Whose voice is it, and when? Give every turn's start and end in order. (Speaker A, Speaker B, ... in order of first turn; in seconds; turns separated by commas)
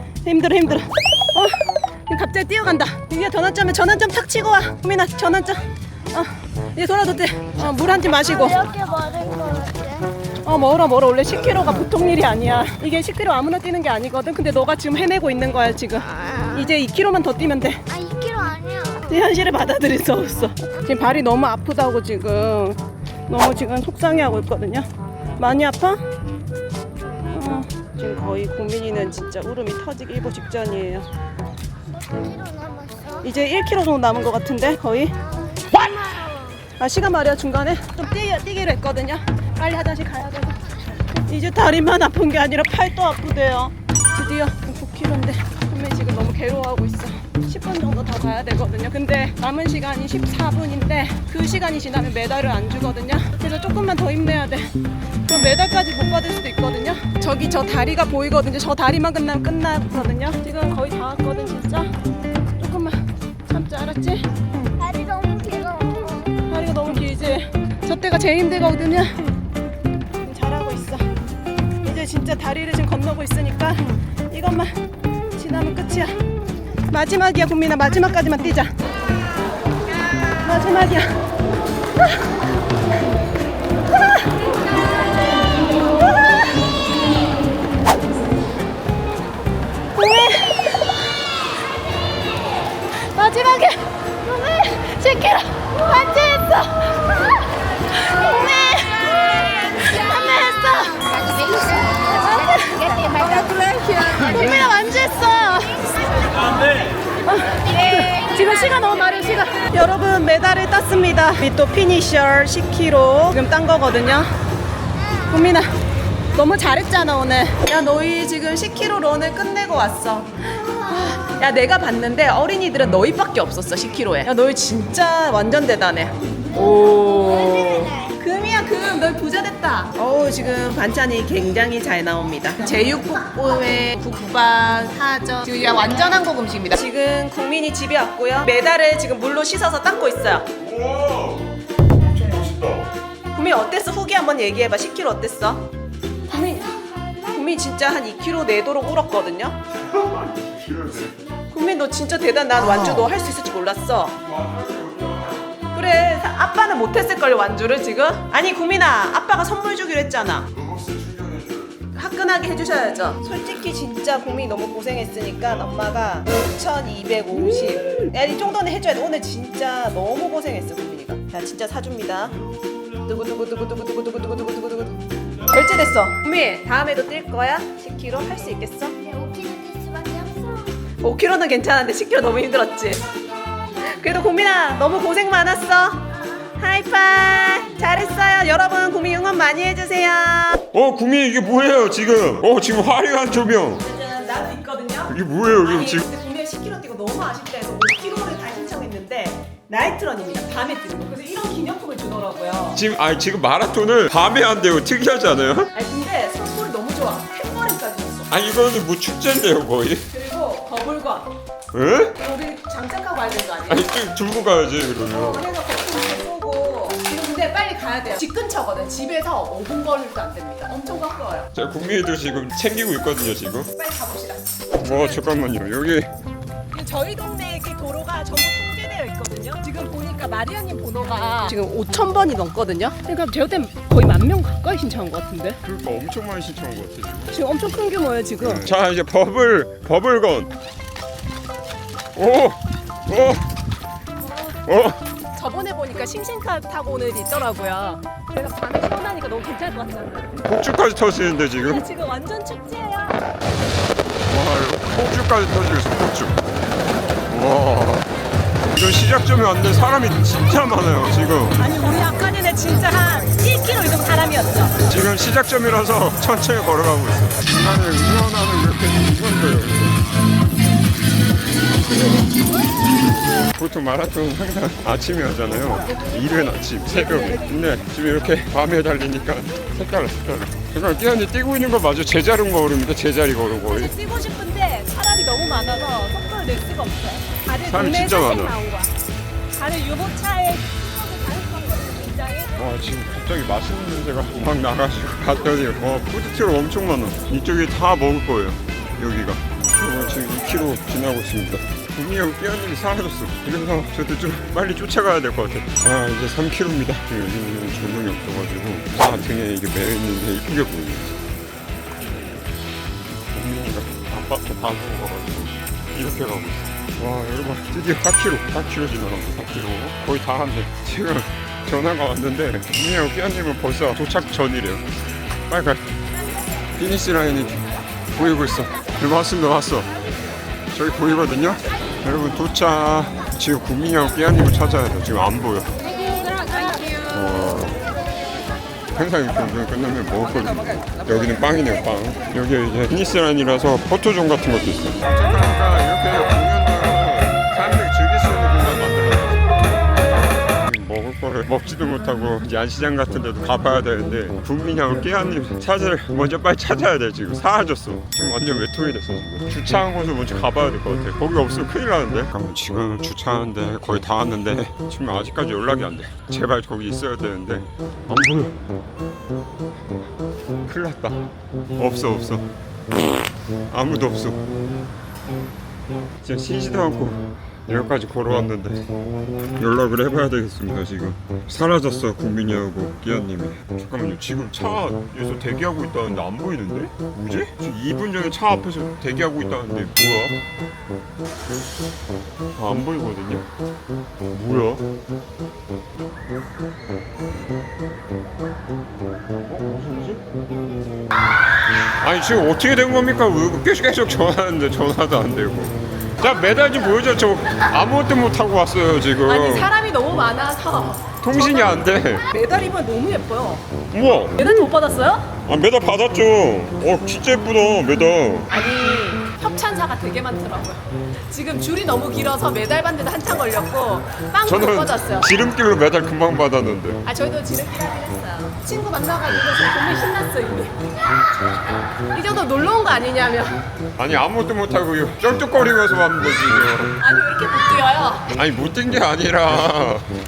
Speaker A: 0.2-1.5, Speaker A: 2.1-8.7, Speaker B: 8.0-10.2, Speaker A: 10.4-17.8, Speaker B: 16.1-16.7, Speaker B: 17.9-19.3, Speaker A: 19.1-24.9, Speaker A: 25.4-26.0, Speaker A: 27.3-31.1, Speaker B: 31.9-33.2, Speaker A: 33.2-35.1, Speaker B: 35.2-36.6, Speaker A: 36.8-40.6, Speaker A: 41.1-54.7, Speaker A: 55.3-61.9, Speaker A: 62.6-64.3, Speaker B: 64.8-66.4, Speaker A: 66.5-69.3, Speaker A: 70.2-71.0, Speaker A: 71.8-74.7, Speaker A: 75.3-76.2, Speaker A: 76.9-78.7, Speaker A: 80.4-81.2, Speaker A: 90.0-90.7, Speaker A: 93.1-97.2, Speaker A: 97.9-101.5, Speaker A: 102.0-106.6, Speaker A: 107.2-114.3, Speaker A: 115.2-115.8, Speaker A: 116.3-140.5, Speaker C: 140.6-142.9, Speaker A: 143.3-145.7, Speaker A: 146.3-146.7, Speaker A: 147.3-149.6, Speaker C: 149.7-151.2, Speaker A: 151.5-154.2, Speaker C: 154.2-155.6, Speaker A: 155.7-160.5, Speaker C: 160.5-161.9, Speaker A: 161.9-172.3, Speaker A: 173.1-178.9, Speaker B: 179.0-180.8, Speaker A: 181.0-183.1, Speaker A: 183.8-186.1, Speaker A: 186.6-190.6, Speaker C: 190.7-193.8, Speaker A: 193.8-202.8, Speaker C: 195.1-196.1, Speaker C: 202.7-205.7, Speaker A: 205.7-208.3, Speaker C: 208.3-210.1, Speaker A: 210.1-211.3, Speaker C: 211.7-212.2, Speaker A: 212.2-213.9, Speaker C: 213.7-215.5, Speaker A: 215.1-221.5, Speaker C: 221.6-223.7, Speaker A: 223.7-225.2, Speaker C: 224.8-226.1, Speaker A: 226.7-235.6, Speaker C: 235.6-237.3, Speaker A: 237.3-238.7, Speaker C: 238.4-240.5, Speaker C: 242.2-243.4, Speaker A: 244.2-244.6, Speaker C: 244.7-245.0, Speaker A: 245.3-250.3, Speaker C: 250.4-251.9, Speaker A: 251.6-253.2, Speaker C: 254.3-256.4, Speaker C: 257.3-258.1, Speaker C: 258.7-261.6, Speaker A: 261.6-264.8, Speaker C: 264.8-270.0, Speaker C: 273.5-283.9, Speaker A: 277.1-277.4, Speaker A: 283.7-288.9, Speaker C: 287.6-288.6, Speaker A: 289.5-292.5, Speaker C: 292.6-311.2, Speaker C: 313.3-324.9, Speaker C: 325.5-325.9, Speaker C: 326.8-329.9, Speaker C: 330.7-335.7, Speaker A: 336.2-337.0, Speaker C: 336.9-337.8, Speaker C: 338.9-349.5, Speaker C: 350.6-368.6, Speaker C: 370.7-372.5, Speaker C: 373.7-374.5, Speaker C: 376.2-378.9, Speaker C: 379.6-390.4, Speaker C: 392.6-393.5, Speaker C: 394.3-394.9, Speaker C: 399.5-400.2, Speaker C: 401.8-409.7, Speaker A: 406.2-407.1, Speaker A: 409.3-413.6, Speaker C: 411.2-412.3, Speaker C: 413.9-414.6, Speaker A: 414.4-415.3, Speaker C: 415.4-418.5, Speaker A: 418.5-425.3, Speaker C: 424.4-427.0, Speaker A: 427.0-430.9, Speaker A: 432.1-433.6, Speaker C: 434.0-437.0, Speaker A: 437.0-438.3, Speaker C: 438.3-440.1